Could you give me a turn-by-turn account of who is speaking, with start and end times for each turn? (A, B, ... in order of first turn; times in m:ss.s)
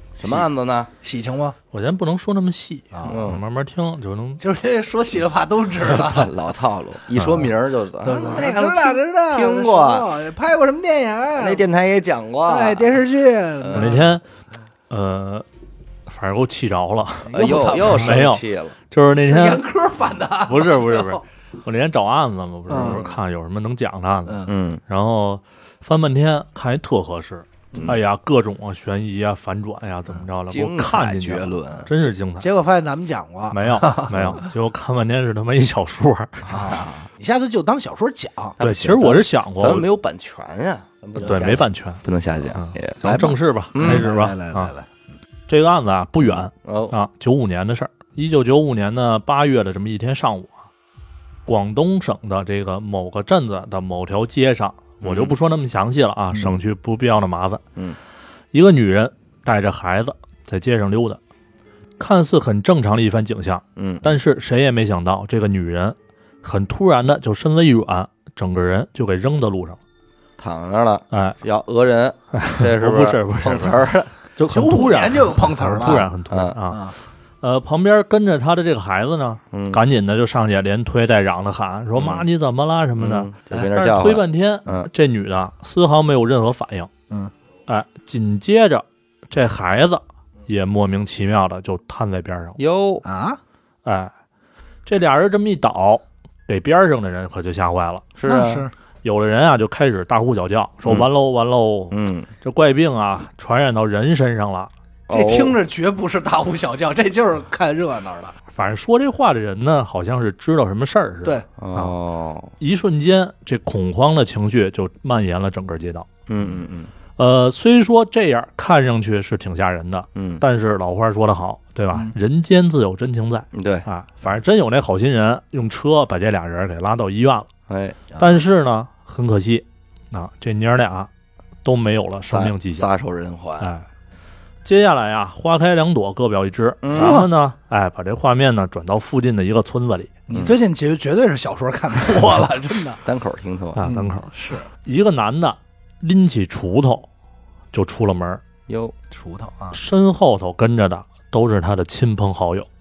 0:00.2-0:00.9 A
0:01.0-0:01.6 B
0:01.7-0:04.4 C
0:02.9-0:03.2 B
0:03.0-0:03.4 A
0:04.4-0:06.3 B
0:05.9-0:10.1 A
0:07.2-0:07.5 C
0:08.0-0:11.6 B
0:11.4-0:13.0 A
0:12.4-0:14.2 B
0:13.6-0:14.0 A
0:13.7-0:14.2 C
0:14.9-0:15.4 C
0:16.1-0:19.6 C
0:17.3-0:18.3 B
0:17.3-0:18.8 A
0:19.2-0:21.2 B
0:20.5-0:32.5 C
0:22.7-0:23.0 B
0:22.7-0:23.2 A
0:24.4-0:24.8 A
0:27.7-0:28.0 A
0:30.5-0:31.9 A
0:32.4-0:34.5 B
0:33.5-0:36.5 C
0:36.5-0:37.1 A
0:36.5-0:38.6 B
0:38.6-0:44.0 A
0:38.6-0:39.9 C
0:41.2-0:41.6 B
0:41.2-0:42.0 C
0:42.5-0:44.7 C
0:43.8-0:44.9 B
0:45.5-0:50.6 C
0:46.2-0:47.0 A
0:51.4-0:57.6 C
0:55.0-0:55.3 A
0:58.5-1:01.2 C
1:02.0-1:09.8 C
1:03.8-1:04.1 A
1:10.4-1:14.1 A
1:11.1-1:11.4 C
1:12.3-1:26.9 C
1:14.5-1:16.1 B
1:16.3-1:16.6 A
1:16.7-1:17.0 B
1:19.5-1:19.8 A
1:21.9-1:22.2 A
1:23.0-1:24.9 A
1:27.7-1:32.6 C
1:32.6-1:33.0 A
1:33.0-1:33.4 B
1:33.8-1:34.1 C
1:34.8-1:38.1 C
1:38.2-1:38.7 A
1:38.2-1:38.7 B
1:39.0-1:44.7 C
1:40.8-1:41.1 A
1:41.9-1:42.3 A
1:45.1-1:45.6 A
1:45.1-1:48.3 B
1:48.5-1:51.9 C
1:51.6-1:52.5 A
1:52.6-1:56.1 C
1:56.3-1:56.9 A
1:57.2-2:07.5 C
2:00.2-2:00.4 A
2:03.5-2:03.9 A
2:07.7-2:08.1 A
2:08.1-2:08.4 B
2:08.2-2:11.1 C
2:11.6-2:12.9 C
2:12.3-2:13.7 A
2:13.6-2:13.9 C
2:14.6-2:20.2 C
2:16.8-2:17.2 A
2:16.9-2:17.3 B
2:20.3-2:23.0 B
2:20.3-2:20.6 A
2:23.0-2:23.9 A
2:23.8-2:27.1 C
2:23.8-2:24.7 B
2:27.7-2:28.4 C
2:28.7-2:28.9 A
2:29.1-2:29.8 B
2:29.7-2:32.7 C